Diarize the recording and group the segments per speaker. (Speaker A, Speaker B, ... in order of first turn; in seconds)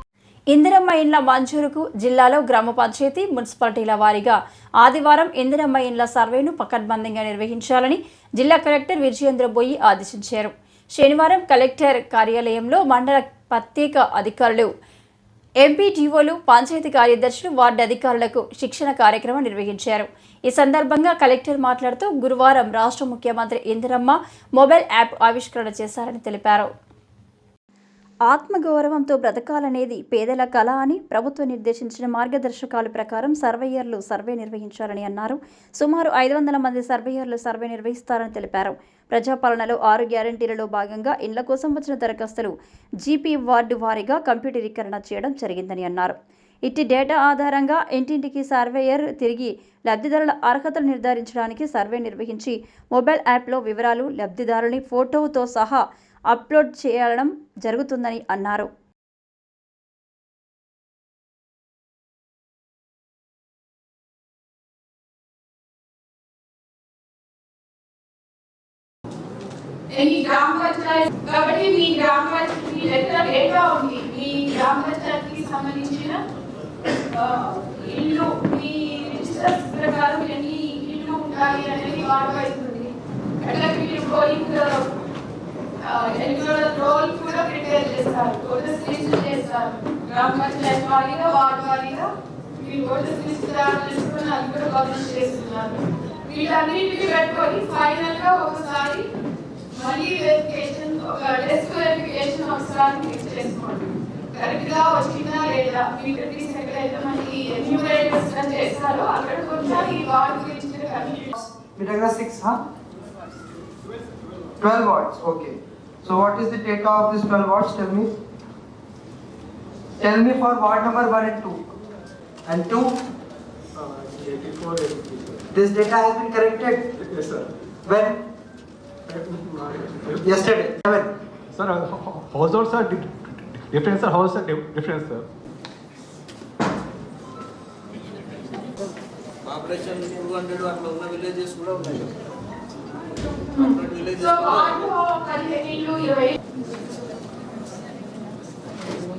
Speaker A: 0.5-14.7, 15.6-26.7, 28.3-58.7
Speaker B: 69.9-76.2, 77.1-84.9, 85.8-99.1, 99.7-111.3, 143.5-146.4
Speaker C: 111.4-112.6, 114.6-118.1, 120.0-121.7, 122.5-123.0, 125.5-127.0, 127.9-128.3, 130.2-131.1
Speaker D: 123.8-125.5, 127.0-127.5, 129.1-130.2, 131.6-135.3
Speaker E: 139.4-142.1, 143.8-144.3